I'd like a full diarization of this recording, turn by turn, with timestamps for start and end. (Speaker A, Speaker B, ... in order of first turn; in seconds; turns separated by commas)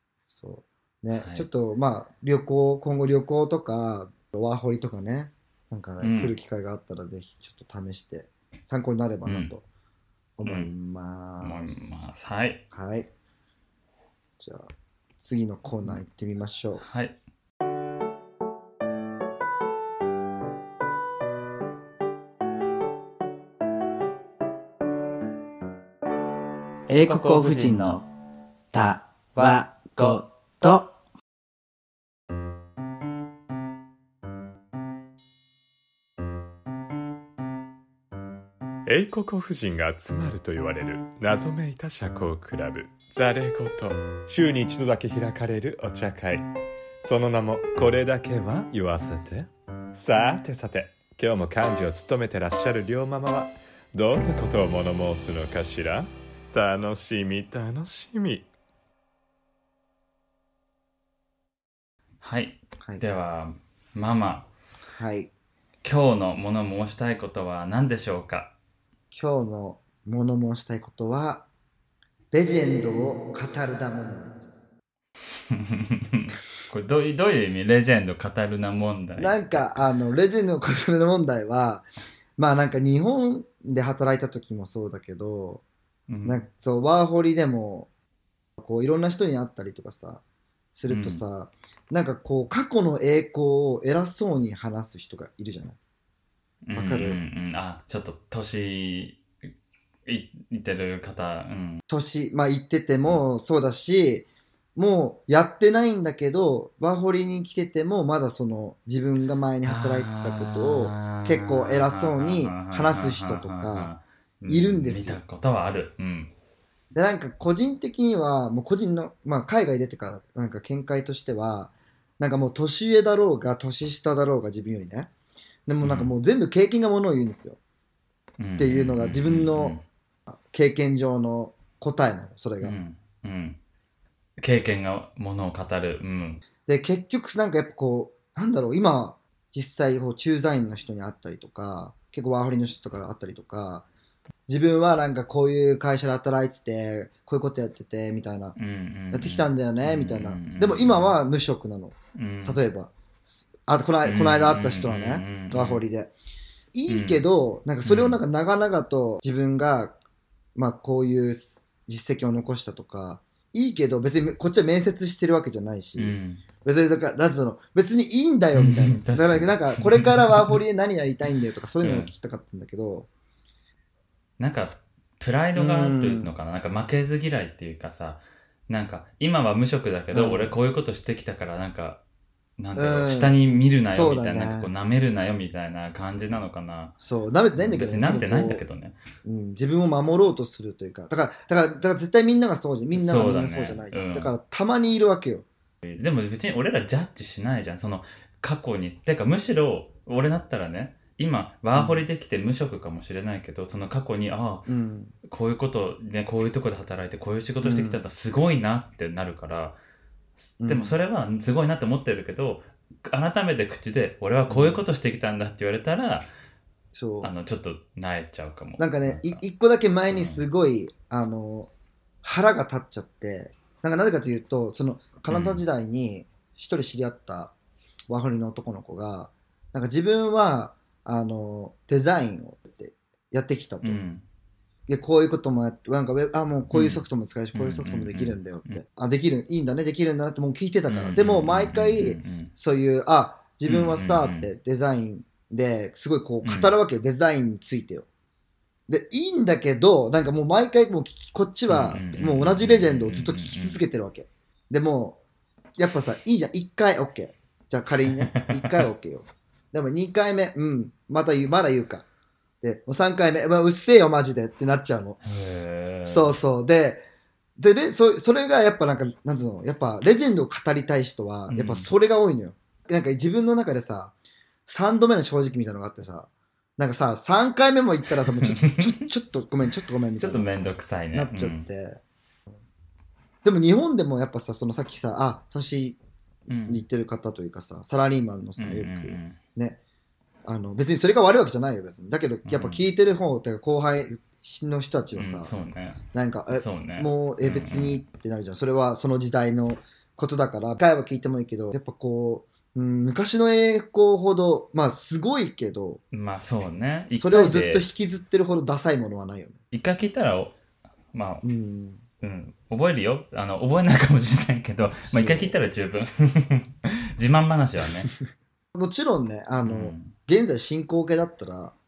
Speaker A: 0.3-9.6, Speaker B: 1.1-1.5, Speaker B: 6.0-6.3, Speaker B: 9.3-9.5, Speaker A: 10.4-12.0, Speaker B: 10.4-10.7, Speaker B: 11.4-12.6, Speaker A: 12.7-13.1, Speaker A: 14.4-16.8, Speaker B: 16.8-17.2, Speaker C: 26.9-28.1, Speaker C: 28.7-30.9, Speaker D: 38.9-46.5, Speaker D: 47.0-58.5, Speaker B: 62.2-64.5, Speaker A: 65.0-65.3, Speaker B: 65.8-68.5, Speaker A: 69.1-71.5, Speaker A: 72.3-74.6, Speaker B: 75.5-79.8, Speaker A: 79.2-85.6, Speaker B: 86.1-86.5, Speaker A: 86.2-87.9, Speaker A: 88.6-90.2, Speaker A: 90.8-95.8, Speaker B: 90.9-91.2, Speaker B: 96.7-99.2, Speaker A: 96.8-97.2, Speaker B: 100.1-101.8, Speaker A: 101.9-113.9, Speaker B: 109.7-116.3, Speaker A: 114.5-115.2, Speaker A: 116.9-125.1, Speaker A: 125.7-127.6, Speaker B: 125.8-126.1, Speaker B: 128.4-129.8, Speaker A: 128.6-129.8, Speaker A: 130.3-132.8, Speaker B: 132.6-133.6, Speaker B: 134.4-136.4, Speaker A: 136.7-143.9, Speaker A: 144.5-148.6, Speaker B: 148.6-151.2, Speaker A: 149.1-156.1, Speaker B: 152.2-152.6, Speaker B: 154.0-155.8, Speaker A: 156.7-160.0, Speaker B: 156.9-157.2, Speaker B: 157.8-158.2, Speaker A: 160.6-173.1, Speaker B: 166.0-166.4, Speaker B: 168.6-170.6, Speaker B: 171.8-172.1, Speaker B: 174.4-182.0, Speaker A: 175.6-176.3, Speaker A: 180.1-180.5, Speaker B: 182.6-186.9, Speaker A: 182.8-183.3, Speaker A: 183.9-184.7, Speaker A: 187.0-188.6, Speaker B: 187.6-189.0, Speaker A: 189.2-195.5, Speaker B: 192.9-194.3, Speaker B: 195.8-204.7, Speaker A: 201.8-202.1, Speaker A: 204.7-205.2, Speaker B: 205.2-209.8, Speaker A: 207.6-208.0, Speaker B: 210.4-216.3, Speaker A: 210.6-211.0, Speaker A: 214.5-214.8, Speaker A: 216.9-217.3, Speaker B: 217.2-219.4, Speaker A: 218.8-221.7, Speaker B: 220.1-220.5, Speaker A: 222.2-227.5, Speaker B: 225.3-225.6, Speaker A: 228.1-234.0, Speaker B: 233.8-234.2, Speaker A: 234.9-248.1, Speaker B: 236.7-238.8, Speaker B: 240.9-242.5, Speaker B: 243.7-244.5, Speaker B: 246.4-246.7, Speaker A: 248.9-255.2, Speaker B: 251.7-253.8, Speaker A: 255.8-262.1, Speaker B: 258.2-258.9, Speaker A: 262.6-265.2, Speaker B: 265.2-266.4, Speaker A: 266.1-267.1, Speaker A: 267.6-274.1, Speaker B: 271.5-271.9, Speaker A: 274.7-280.5, Speaker B: 278.2-279.1, Speaker B: 280.2-281.7, Speaker A: 281.1-282.0, Speaker A: 283.4-286.0, Speaker B: 286.5-286.8, Speaker A: 286.7-289.8, Speaker B: 288.6-289.4, Speaker A: 290.4-295.5, Speaker B: 292.5-292.9, Speaker B: 295.2-298.0, Speaker A: 296.1-306.0, Speaker B: 306.1-307.9, Speaker A: 307.1-309.6, Speaker B: 309.7-310.6, Speaker B: 311.1-311.4, Speaker A: 311.4-312.1, Speaker B: 312.2-318.1, Speaker A: 315.1-315.6, Speaker A: 318.7-321.8, Speaker B: 319.6-320.1